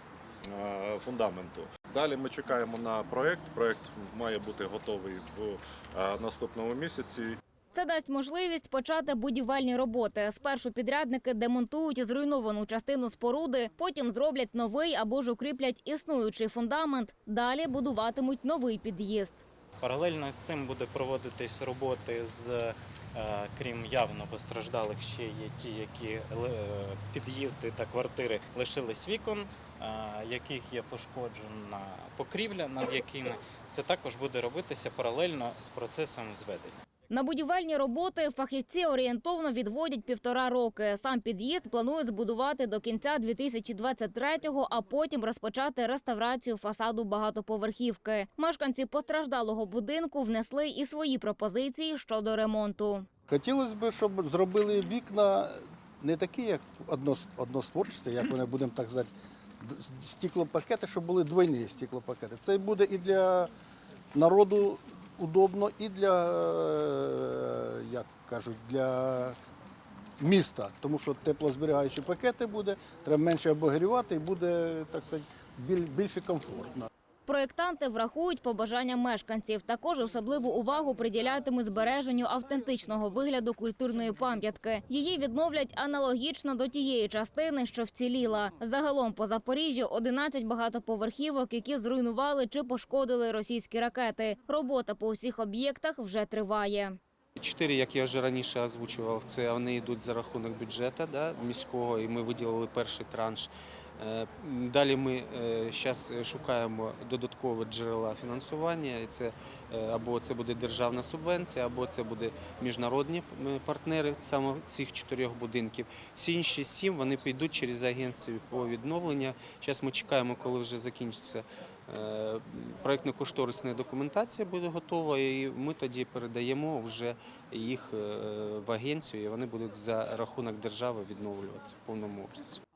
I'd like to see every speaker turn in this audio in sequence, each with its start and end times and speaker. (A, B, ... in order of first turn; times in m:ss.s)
0:00.5-0:07.4 A
0:07.7-0:19.4 B
0:19.8-0:36.8 C
0:37.1-0:53.1 B
0:53.3-0:59.1 D
0:59.6-1:03.5 D
1:04.1-1:09.4 D
1:10.2-1:16.9 D
1:17.3-1:37.0 B
1:37.4-2:12.6 E